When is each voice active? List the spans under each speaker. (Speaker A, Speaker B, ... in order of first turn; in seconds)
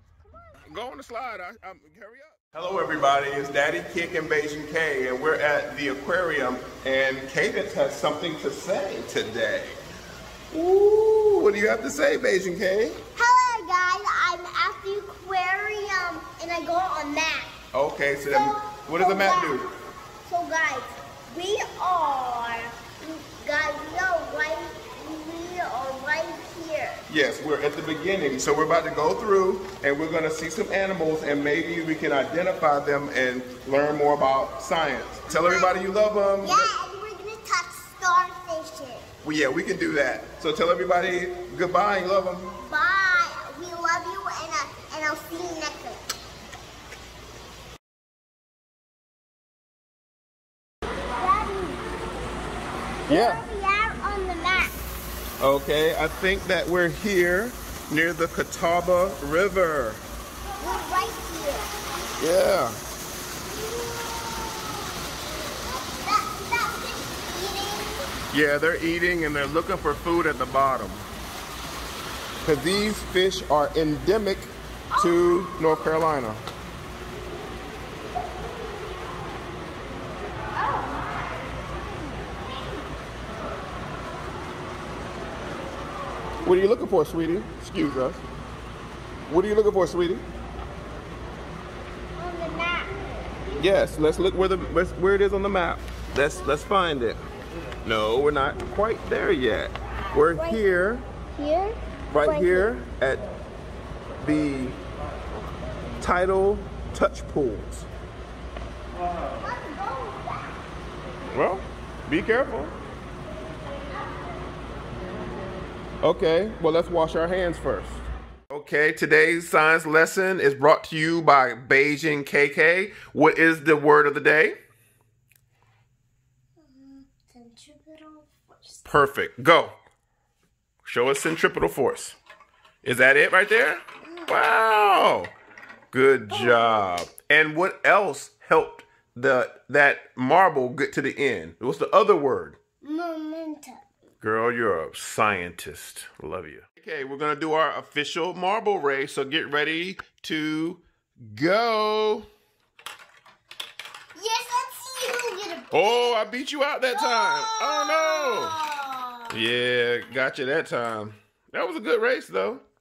Speaker A: 0.7-9.8, 10.5-13.0, 17.7-19.7, 27.1-36.7, 39.2-42.5, 53.1-53.4, 55.4-60.0, 62.2-62.8, 68.3-71.1, 72.4-76.4, 86.4-88.2, 89.3-90.2, 93.6-97.2, 97.8-101.0, 102.1-103.2, 104.2-104.8, 106.0-107.9, 111.3-112.7, 116.0-124.5, 128.8-129.8, 130.8-132.2, 132.8-135.3, 135.9-142.6, 144.2-152.3, 155.7-158.6, 159.3-162.6
Speaker B: 13.1-17.5, 18.3-19.6, 20.2-27.0, 35.3-35.8, 36.4-39.1, 42.6-46.0, 51.1-51.9, 53.1-54.8, 60.6-61.7, 63.6-68.1, 74.9-75.7, 92.2-93.3, 100.3-100.6, 101.3-102.7, 109.4-110.6, 113.9-114.3, 126.6-128.8, 134.1-134.3, 136.3-136.8, 142.8-143.8, 154.1-156.2, 156.9-159.4